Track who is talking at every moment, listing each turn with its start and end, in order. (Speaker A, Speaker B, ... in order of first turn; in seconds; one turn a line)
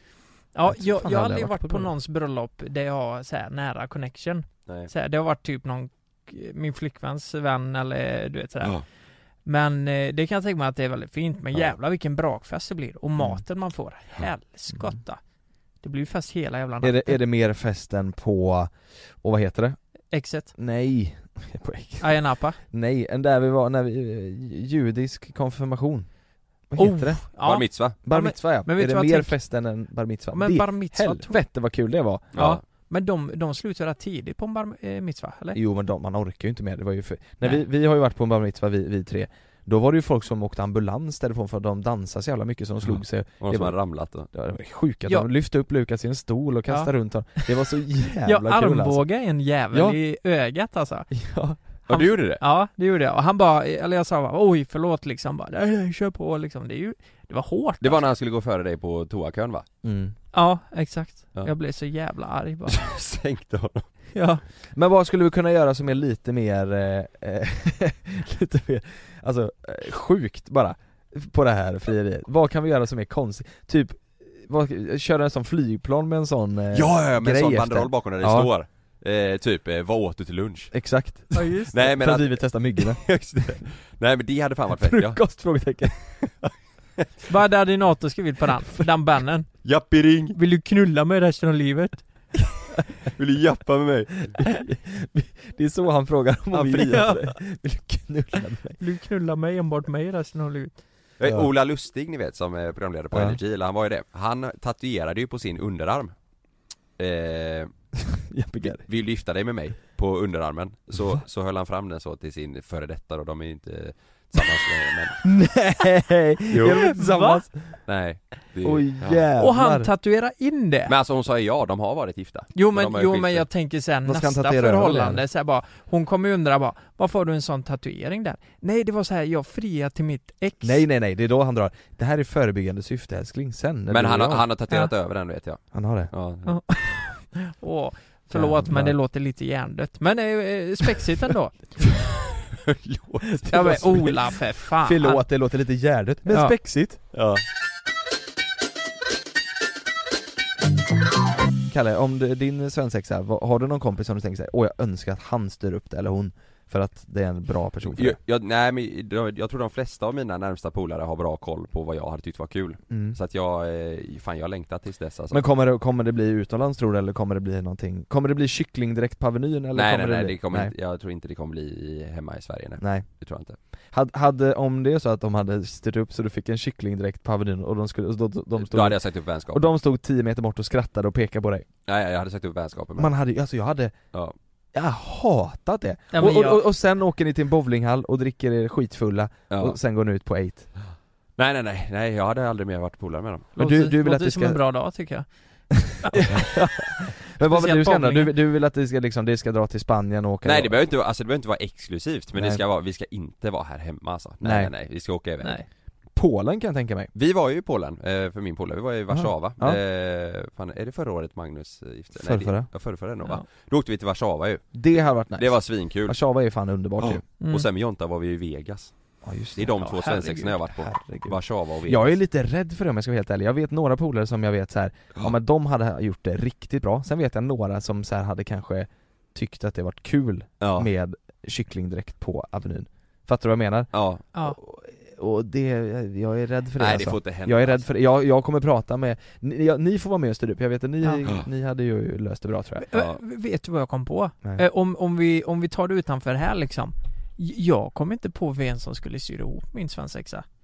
Speaker A: 0.5-8.7
Speaker B: 0.7-1.9
Speaker A: 9.4-15.2
Speaker A: 15.8-17.2
Speaker B: 16.8-19.8
Speaker A: 20.1-20.5
Speaker B: 20.5-26.1
Speaker A: 22.0-22.6
Speaker B: 26.7-32.3
Speaker A: 26.8-29.4
Speaker C: 27.4-27.9
Speaker A: 30.3-31.4
Speaker C: 32.3-32.6
Speaker A: 32.3-35.6
Speaker B: 35.5-43.8
Speaker C: 42.8-44.3
Speaker B: 44.3-49.0
Speaker A: 46.7-51.1
Speaker B: 49.7-50.0
Speaker B: 51.1-51.6
Speaker A: 51.9-58.0
Speaker C: 51.9-52.4
Speaker C: 57.8-59.6
Speaker B: 59.8-60.1
Speaker A: 60.3-62.8
Speaker C: 62.7-63.9
Speaker A: 64.1-64.4
Speaker B: 64.7-78.5
Speaker C: 76.7-80.7
Speaker B: 80.7-83.5
Speaker A: 81.3-81.7
Speaker C: 81.7-85.2
Speaker B: 84.8-86.2
Speaker A: 87.3-89.6
Speaker C: 89.6-90.4
Speaker A: 90.3-92.1
Speaker C: 93.1-94.4
Speaker B: 94.3-98.8
Speaker C: 96.5-97.3
Speaker A: 96.9-97.2
Speaker A: 98.8-100.8
Speaker C: 101.2-106.1
Speaker B: 101.2-101.5
Speaker B: 103.1-103.4
Speaker C: 107.0-107.7
Speaker B: 108.3-108.8
Speaker C: 108.7-115.2
Speaker B: 115.2-117.8
Speaker C: 116.5-116.8
Speaker A: 116.8-117.4
Speaker C: 117.9-119.2
Speaker B: 118.6-119.9
Speaker A: 119.4-120.9
Speaker C: 120.9-123.5
Speaker A: 122.5-130.8
Speaker B: 124.0-125.2
Speaker B: 130.6-134.4
Speaker C: 133.9-136.6
Speaker B: 135.7-136.1
Speaker A: 136.4-141.8
Speaker B: 138.3-139.0
Speaker C: 142.7-143.9
Speaker B: 143.3-144.2
Speaker A: 143.5-145.2
Speaker B: 144.8-147.0
Speaker A: 146.3-146.5
Speaker C: 147.1-147.4
Speaker B: 151.7-158.2
Speaker C: 157.9-165.4
Speaker B: 162.9-163.2
Speaker B: 165.3-170.7
Speaker C: 169.7-173.6
Speaker B: 172.8-173.1
Speaker B: 173.9-179.0
Speaker C: 178.6-179.7
Speaker B: 179.5-181.7
Speaker C: 181.9-183.1
Speaker B: 183.0-183.9
Speaker B: 184.7-190.7
Speaker A: 186.1-186.7
Speaker C: 189.5-189.8
Speaker C: 191.4-193.5
Speaker B: 193.6-194.6
Speaker A: 193.6-195.3
Speaker B: 195.8-200.8
Speaker A: 196.0-196.3
Speaker A: 197.4-198.3
Speaker C: 200.4-205.6
Speaker B: 202.3-202.6
Speaker B: 204.4-204.7
Speaker B: 206.1-207.1
Speaker C: 207.1-214.7
Speaker B: 209.1-209.8
Speaker B: 212.1-212.7
Speaker B: 214.7-217.2
Speaker C: 215.3-216.2
Speaker C: 217.0-218.9
Speaker A: 217.4-217.7
Speaker B: 219.2-219.9
Speaker C: 219.5-222.2
Speaker A: 219.8-220.5
Speaker B: 220.7-242.9
Speaker C: 230.6-230.9
Speaker C: 233.9-234.2
Speaker C: 236.8-237.8
Speaker A: 242.8-250.4
Speaker C: 242.9-243.2